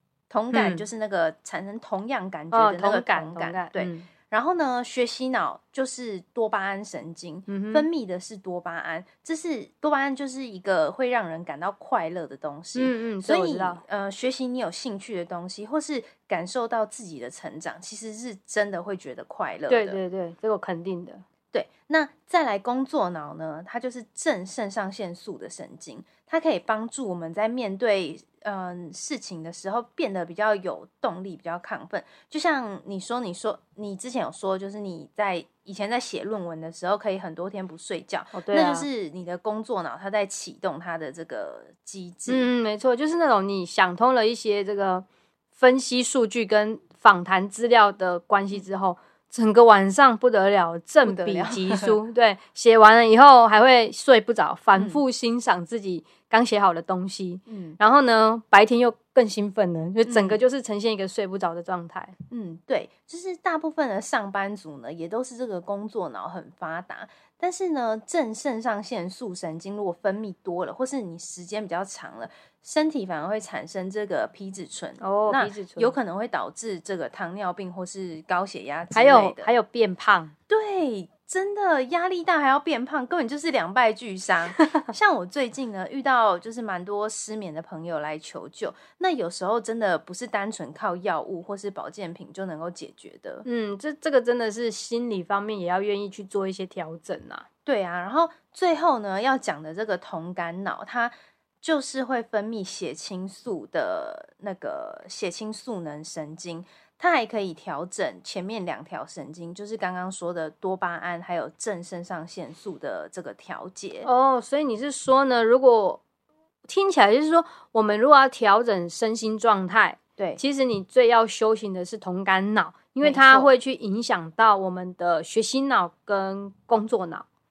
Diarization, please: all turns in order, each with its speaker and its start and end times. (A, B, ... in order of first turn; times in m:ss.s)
0:00.3-0:20.0 A
0:00.5-0:00.8 B
0:02.5-0:04.1 B
0:07.5-0:07.8 B
0:12.7-0:13.8 B
0:19.7-0:21.2 B
0:21.5-0:42.5 A
0:38.3-0:38.9 B
0:42.3-1:02.1 B
0:51.0-0:52.0 A
0:54.7-0:55.0 A
0:57.5-0:57.8 A
1:00.0-1:00.4 A
1:02.3-1:19.5 A
1:15.0-1:15.9 B
1:18.9-1:20.3 B
1:20.5-1:33.4 A
1:24.6-1:24.9 B
1:33.4-1:37.4 B
1:37.6-1:54.1 A
1:54.0-1:56.0 B
1:56.7-2:07.2 B
2:03.0-2:03.5 A